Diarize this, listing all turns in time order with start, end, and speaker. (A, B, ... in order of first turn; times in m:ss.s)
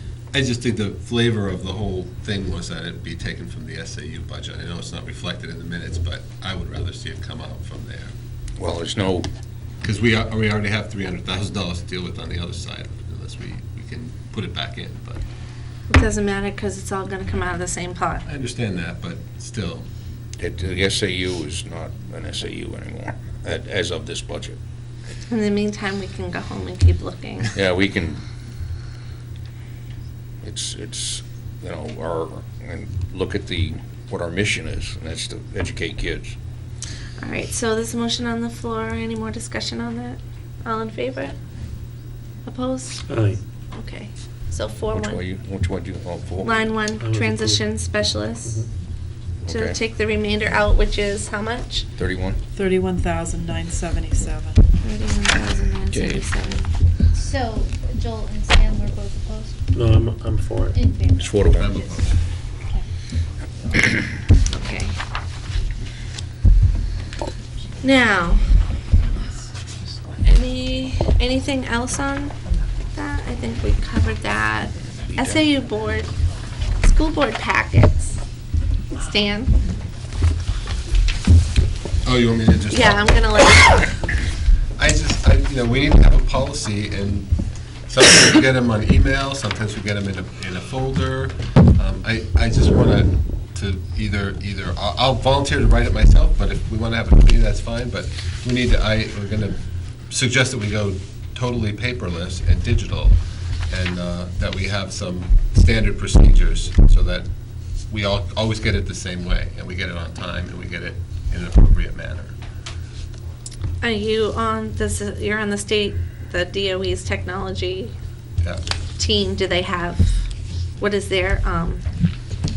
0:00.3-0:08.1 A
0:08.6-0:09.3 B
0:09.8-0:15.2 A
0:15.9-0:18.2 C
0:18.2-0:19.8 A
0:20.4-0:24.6 B
0:25.3-0:27.5 C
0:27.5-0:28.2 B
0:30.4-0:36.4 B
0:37.2-0:41.3 C
0:42.4-0:43.1 C
0:43.1-0:43.4 D
0:43.7-0:45.2 C
0:44.9-0:46.6 B
0:46.4-0:48.6 C
0:47.0-0:47.6 D
0:49.4-0:49.8 B
0:49.5-0:51.8 C
0:52.0-0:52.4 B
0:52.5-0:54.6 E
0:54.8-0:56.7 C
0:55.9-0:56.3 B
0:57.1-0:59.7 F
0:59.7-1:00.8 D
1:00.7-1:02.1 F
1:01.2-1:01.7 B
1:01.5-1:02.2 A
1:04.5-1:05.0 C
1:07.8-1:08.5 C
1:10.2-1:12.3 C
1:12.9-1:16.1 C
1:16.8-1:18.2 C
1:19.0-1:19.6 C
1:22.0-1:23.2 A
1:22.7-1:24.0 C
1:24.8-1:27.3 A
1:27.9-1:39.6 A
1:40.1-1:43.2 A
1:43.7-1:47.3 A
1:47.9-1:52.3 A
1:53.8-1:57.9 C
1:59.0-2:00.2 C
2:00.8-2:01.8 C